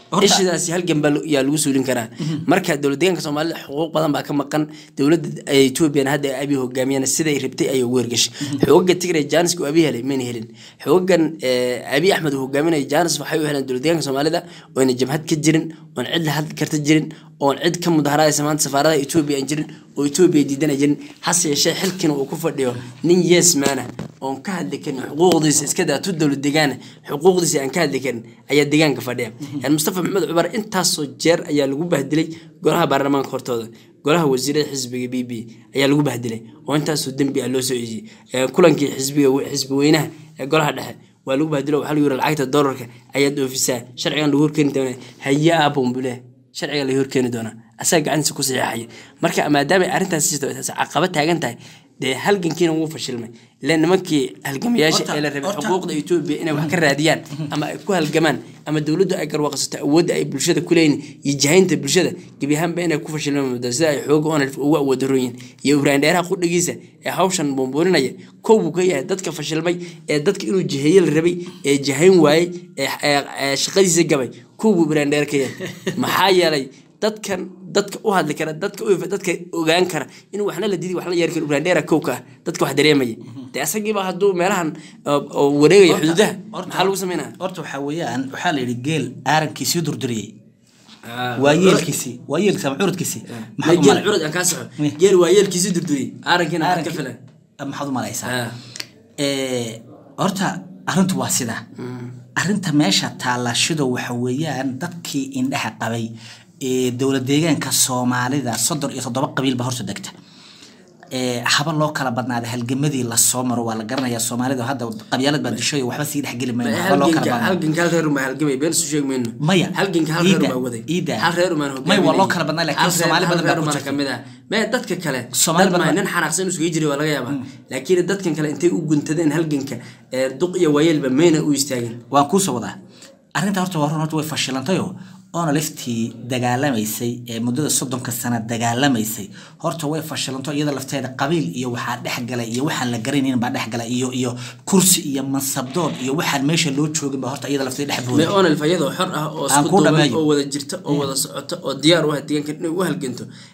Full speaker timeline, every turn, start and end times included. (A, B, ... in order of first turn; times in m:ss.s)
0:00.1-0:00.4 A
0:00.2-1:27.4 B
0:54.9-0:55.8 A
1:25.9-1:30.3 A
1:31.1-1:31.9 B
1:31.4-1:34.0 A
1:33.6-1:37.2 B
1:36.6-1:37.0 A
1:37.6-1:38.4 A
1:38.3-1:38.6 B
1:39.2-1:41.6 A
1:41.8-1:42.1 B
1:42.4-1:46.1 A
1:46.6-1:50.2 A
1:51.1-1:57.6 A
1:56.6-2:12.0 B
1:59.4-2:01.3 A
2:01.8-2:04.0 A
2:05.3-2:06.0 A
2:12.1-2:12.8 A
2:13.4-2:28.4 A
2:28.1-2:33.3 B
2:29.5-2:30.2 A